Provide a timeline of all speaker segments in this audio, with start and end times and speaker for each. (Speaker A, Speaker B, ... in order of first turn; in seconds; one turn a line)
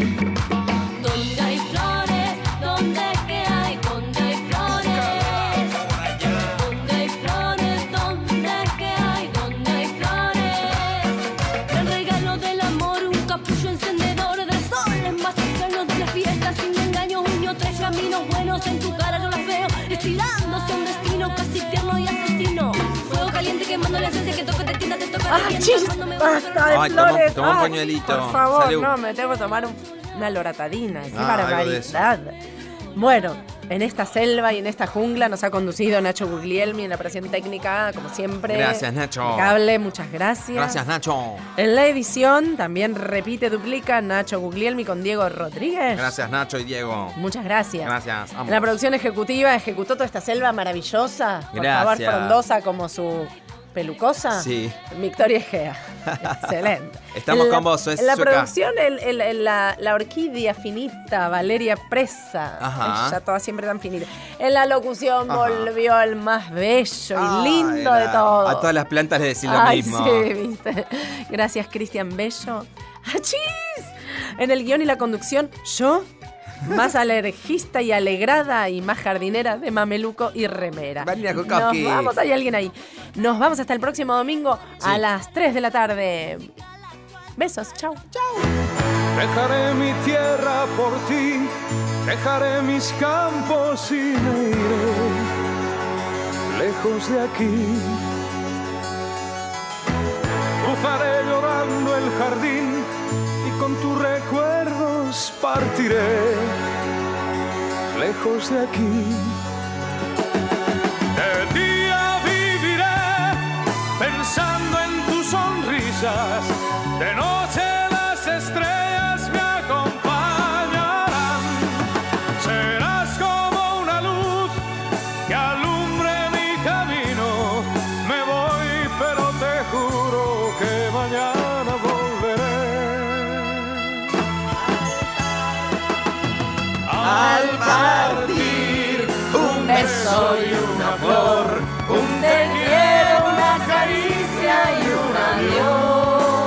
Speaker A: 1.0-5.8
Speaker A: 6.4-11.1
Speaker A: 11.7-26.7
Speaker B: 25.3-32.4
Speaker C: 26.7-28.9
Speaker C: 31.1-32.0
Speaker B: 33.0-40.8
Speaker C: 38.5-39.6
Speaker C: 40.5-41.5
Speaker B: 41.6-46.1
Speaker C: 46.0-47.2
Speaker B: 47.1-47.9
Speaker C: 47.8-48.8
Speaker B: 48.5-68.7
Speaker C: 51.5-52.4
Speaker C: 54.3-54.8
Speaker C: 56.1-56.5
Speaker C: 57.1-58.5
Speaker C: 62.6-63.2
Speaker C: 65.3-65.7
Speaker C: 67.2-70.3
Speaker B: 69.5-76.1
Speaker B: 76.6-86.5
Speaker C: 81.0-82.1
Speaker B: 87.4-88.0
Speaker D: 89.1-91.5
Speaker D: 92.0-95.3
Speaker D: 96.5-98.0
Speaker D: 100.6-102.9
Speaker D: 103.4-106.6
Speaker D: 107.9-109.4
Speaker D: 111.1-124.7
Speaker D: 125.3-133.8
Speaker D: 136.9-145.7
Speaker C: 137.0-138.5